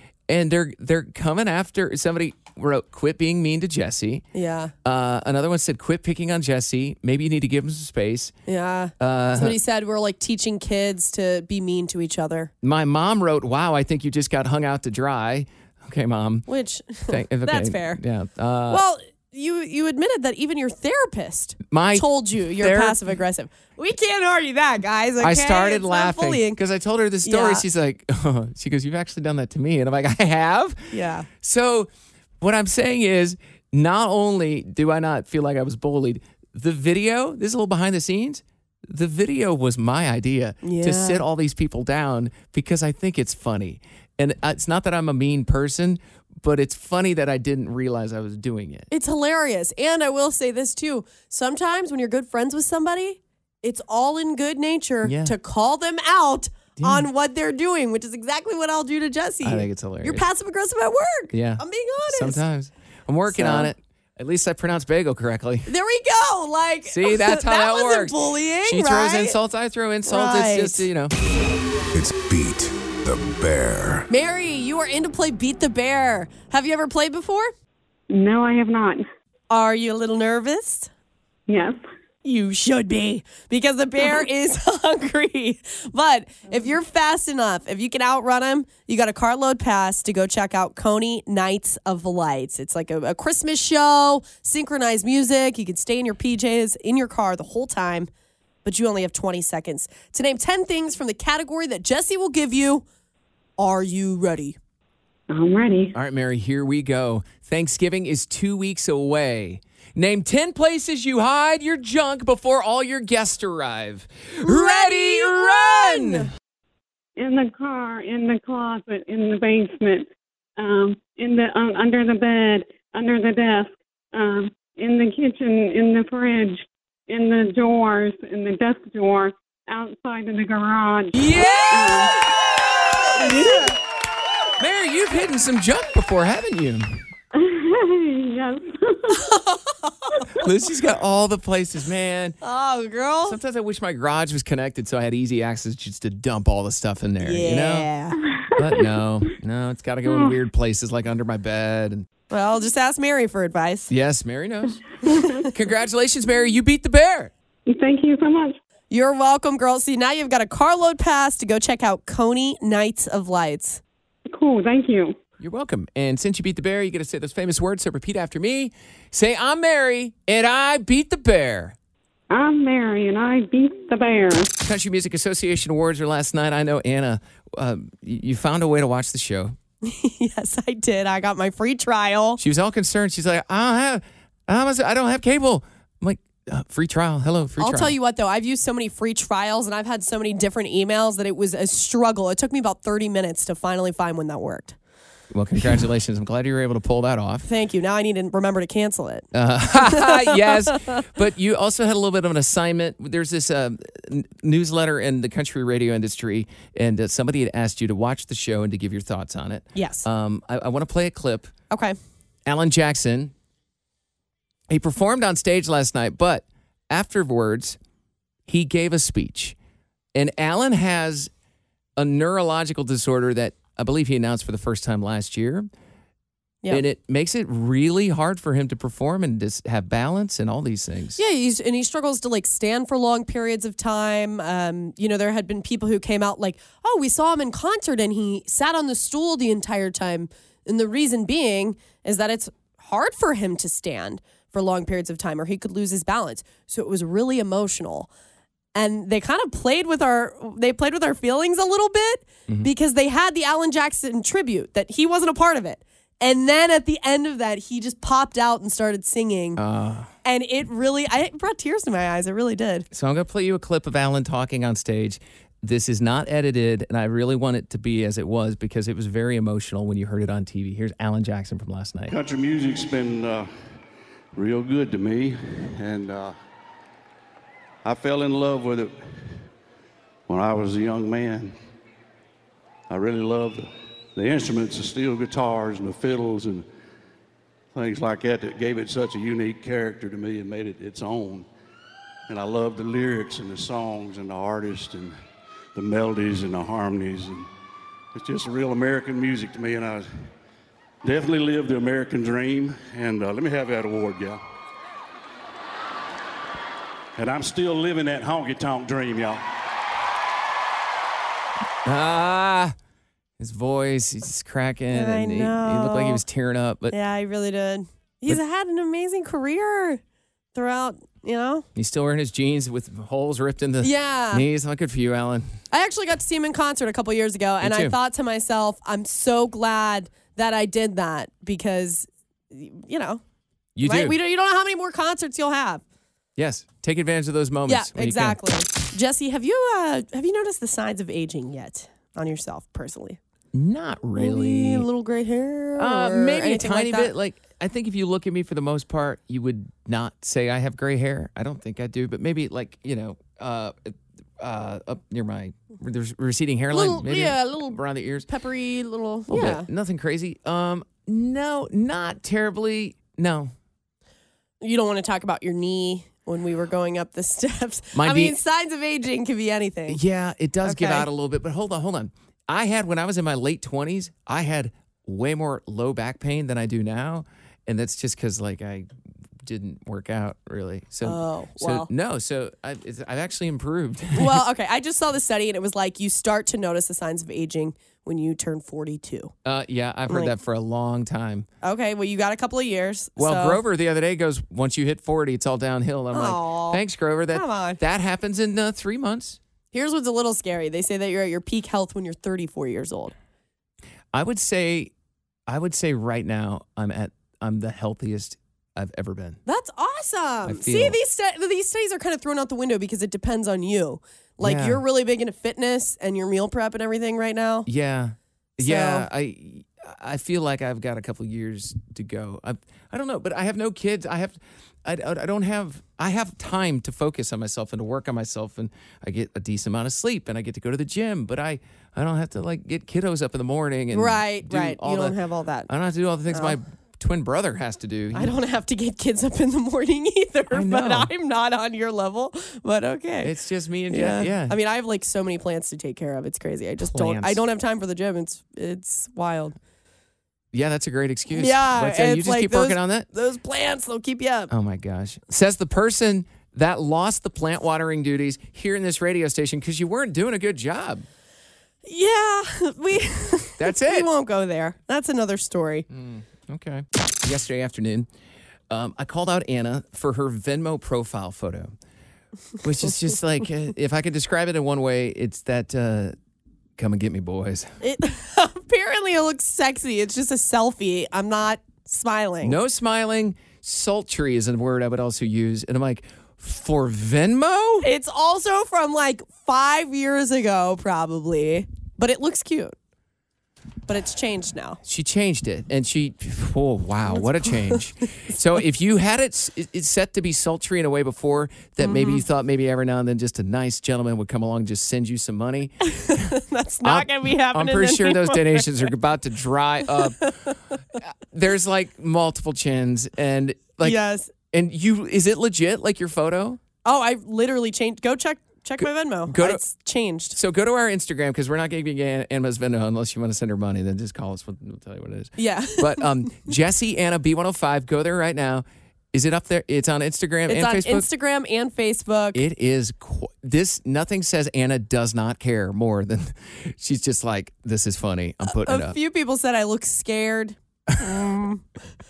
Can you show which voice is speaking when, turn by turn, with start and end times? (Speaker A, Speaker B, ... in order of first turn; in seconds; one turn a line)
Speaker A: 0.3-4.2
Speaker B: 4.3-4.7
Speaker A: 4.8-8.3
Speaker B: 8.5-12.5
Speaker A: 9.0-9.6
Speaker A: 12.6-16.5
Speaker B: 16.5-18.0
Speaker A: 17.1-18.8
Speaker B: 18.7-26.6
Speaker A: 21.6-23.0
Speaker A: 25.2-31.9
Speaker B: 27.2-27.6
Speaker B: 30.9-31.3
Speaker A: 32.4-48.9
Speaker B: 40.6-41.2
Speaker B: 48.9-62.4
Speaker A: 55.0-55.4
Speaker A: 56.8-57.1
Speaker A: 59.4-60.2
Speaker A: 61.3-65.7
Speaker B: 63.3-63.7
Speaker B: 65.7-69.4
Speaker A: 66.9-71.2
Speaker B: 70.1-70.9
Speaker C: 71.9-74.1
Speaker B: 74.1-77.5
Speaker D: 78.1-79.0
Speaker B: 79.5-80.9
Speaker D: 81.5-81.8
Speaker B: 82.2-98.1
Speaker B: 98.7-102.8
Speaker B: 103.6-104.6
Speaker D: 105.3-105.9
Speaker A: 105.9-116.3
Speaker B: 114.5-116.2
Speaker D: 117.2-132.2
Speaker A: 131.1-133.8
Speaker B: 133.2-133.7
Speaker A: 134.6-137.0
Speaker D: 137.3-139.3
Speaker B: 139.1-140.1
Speaker A: 140.3-142.4
Speaker B: 142.4-143.4
Speaker A: 143.2-147.9
Speaker B: 147.2-148.2
Speaker A: 148.6-152.1
Speaker D: 150.1-150.4
Speaker B: 152.3-153.9
Speaker A: 153.9-154.8
Speaker A: 155.4-157.3
Speaker D: 157.7-158.6
Speaker B: 158.9-163.8
Speaker D: 164.3-165.1
Speaker A: 165.4-171.8
Speaker D: 172.3-174.5
Speaker A: 174.6-179.6
Speaker B: 179.8-182.4
Speaker A: 182.4-188.0
Speaker B: 187.6-194.8
Speaker A: 195.3-197.5
Speaker B: 197.5-199.3
Speaker A: 199.3-211.5
Speaker B: 199.8-200.4
Speaker B: 209.8-210.1
Speaker A: 212.5-213.3
Speaker A: 214.7-217.8
Speaker A: 218.5-219.6
Speaker A: 220.2-221.3
Speaker A: 222.0-225.7
Speaker A: 226.7-231.2
Speaker B: 231.2-248.1
Speaker B: 248.7-259.6
Speaker A: 259.6-260.1
Speaker B: 260.2-262.9
Speaker A: 262.9-272.1
Speaker E: 272.1-273.5
Speaker E: 274.4-276.4
Speaker E: 277.8-279.0
Speaker E: 280.3-281.6
Speaker E: 282.9-286.7
Speaker E: 287.7-291.5
Speaker E: 292.3-295.1
Speaker E: 295.8-297.5
Speaker E: 298.1-300.1
Speaker E: 301.0-304.4
Speaker E: 307.2-309.4
Speaker A: 311.9-312.7
Speaker A: 313.4-317.0
Speaker B: 314.9-316.2
Speaker B: 316.9-320.0
Speaker B: 320.6-321.6
Speaker A: 321.8-325.5
Speaker B: 323.8-324.4
Speaker B: 325.7-333.2
Speaker A: 327.6-327.9
Speaker A: 333.8-334.1
Speaker B: 333.8-335.8
Speaker A: 336.4-338.4
Speaker B: 337.7-343.2
Speaker A: 343.5-344.9
Speaker B: 344.2-347.1
Speaker A: 345.8-358.3
Speaker B: 356.7-357.8
Speaker B: 358.3-359.7
Speaker A: 359.3-363.5
Speaker B: 364.6-370.0
Speaker A: 367.9-368.4
Speaker A: 369.9-378.9
Speaker B: 370.6-371.1
Speaker A: 379.4-384.4
Speaker B: 381.0-381.9
Speaker B: 384.1-389.3
Speaker A: 389.4-391.5
Speaker B: 390.1-390.3
Speaker B: 391.6-393.6
Speaker A: 393.2-399.4
Speaker B: 396.1-397.8
Speaker B: 399.7-403.1
Speaker A: 404.1-404.9
Speaker A: 405.5-409.4
Speaker B: 409.5-417.7
Speaker A: 410.4-411.0
Speaker A: 414.4-414.8
Speaker A: 417.7-435.2
Speaker B: 418.6-419.1
Speaker B: 433.9-435.7
Speaker A: 435.7-438.3
Speaker B: 436.3-436.6
Speaker B: 438.1-443.3
Speaker A: 440.5-441.1
Speaker A: 443.2-444.6
Speaker B: 443.9-449.6
Speaker A: 446.8-447.4
Speaker A: 450.5-453.1
Speaker B: 451.3-454.5
Speaker A: 454.5-461.1
Speaker B: 461.9-465.9
Speaker A: 463.6-464.1
Speaker A: 465.9-468.1
Speaker A: 468.7-471.7
Speaker A: 472.6-476.1
Speaker A: 476.8-477.7
Speaker B: 477.8-482.6
Speaker A: 482.4-487.9
Speaker B: 487.8-492.8
Speaker B: 493.9-494.8
Speaker A: 494.8-510.3
Speaker B: 501.8-502.2
Speaker B: 506.0-508.7
Speaker B: 510.2-510.6
Speaker A: 511.0-516.6
Speaker B: 513.8-514.3
Speaker B: 516.8-520.4
Speaker A: 518.8-519.6
Speaker A: 520.3-531.1
Speaker B: 525.4-526.1
Speaker B: 530.5-532.4
Speaker A: 532.3-539.0
Speaker B: 538.5-541.8